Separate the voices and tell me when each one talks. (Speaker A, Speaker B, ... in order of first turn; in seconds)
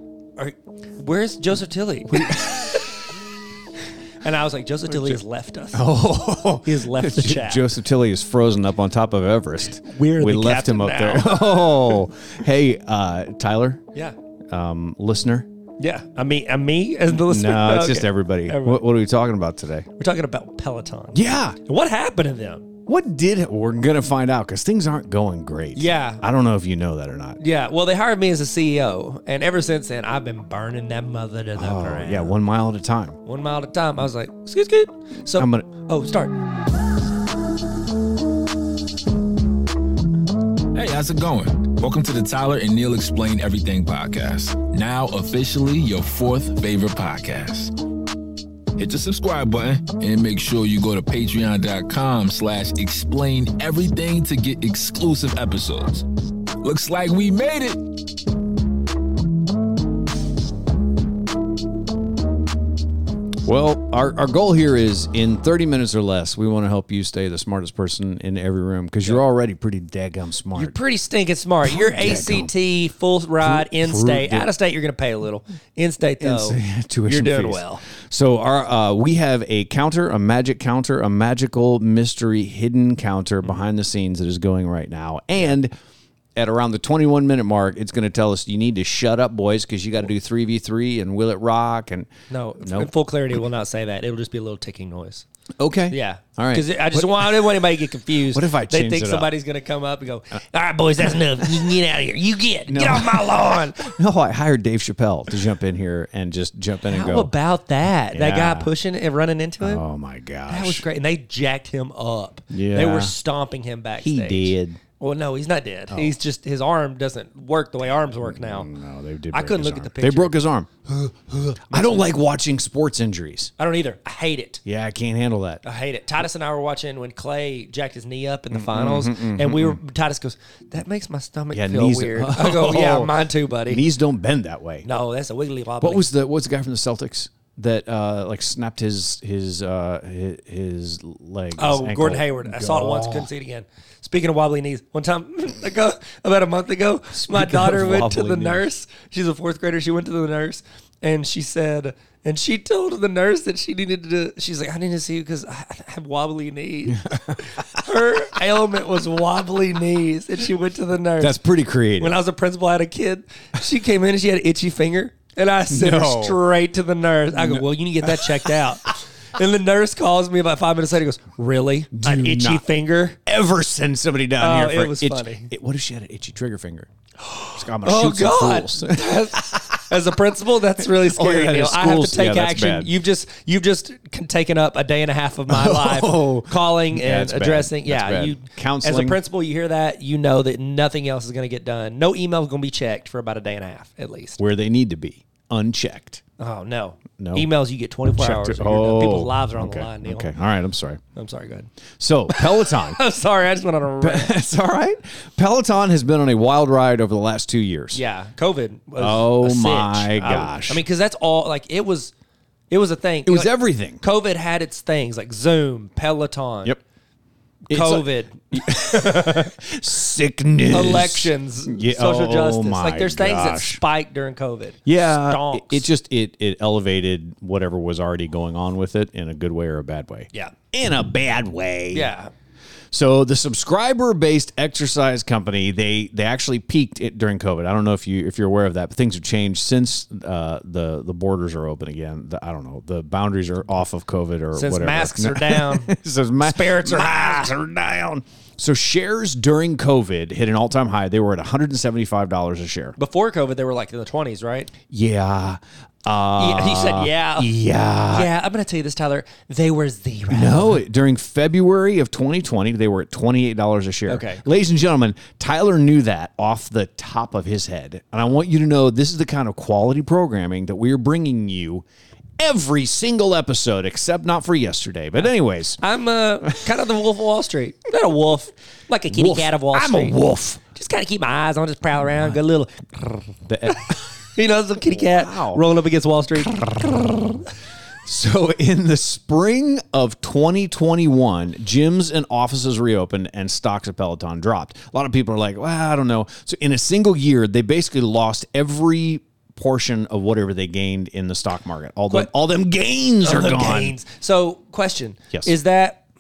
Speaker A: 0.4-3.0, 4.2-5.9, 6.6-7.6, 9.8-12.0, 15.8-18.8, 20.0-22.7, 25.7-26.2, 27.4-32.4, 33.2-36.3, 70.6-77.8, 92.3-95.2, 95.9-103.9, 106.8-109.8, 110.5-118.7, 119.3-120.3, 120.9-122.1, 123.6-124.6, 125.6-133.8, 134.8-136.1, 141.6-161.4, 162.0-173.2, 174.4-175.5, 177.2-194.4, 196.4-200.3, 201.2-201.7, 202.3-204.3, 207.9-212.1, 212.7-216.7, 217.7-219.6, 220.7-225.9, 231.9-232.3, 244.5-247.5, 253.0-254.7, 256.4-257.5, 258.1-260.8, 264.1-264.4, 275.8-287.4, 303.2-306.1
Speaker B: 2.1-2.8, 4.9-5.2, 5.7-13.8, 14.5-15.5, 17.1-19.9, 21.1-21.6, 22.9-27.4, 31.6-33.2, 35.4-35.7, 63.5-70.8, 71.6-72.5, 73.4-74.5, 76.2-85.7, 86.3-92.9, 95.6-97.6, 98.3-99.3, 101.0-101.8, 102.7-107.3, 108.1-108.7, 109.6-110.8, 112.5-113.2, 114.0-114.8, 115.9-116.2, 118.2-120.9, 121.7-123.5, 124.7-125.6, 128.5-129.8, 131.5-134.9, 135.8-143.3, 147.1-148.7, 157.1-157.5, 161.2-162.2, 165.7-166.4, 167.4-168.6, 171.9-172.6, 173.2-176.9, 177.5-179.9, 180.8-182.9, 185.5-189.2, 194.4-196.2, 197.2-197.5, 198.2-201.0, 202.0-203.0, 204.0-208.0, 209.0-210.8, 213.2-214.0, 217.7-223.8, 224.8-232.1, 232.9-252.9, 254.9-258.3, 260.3-271.9, 272.4-275.8, 279.1-280.6, 283.5-284.0, 284.9-285.6, 286.4-287.1, 288.1-303.9
Speaker C: 40.7-47.7, 48.8-56.0, 56.6-57.8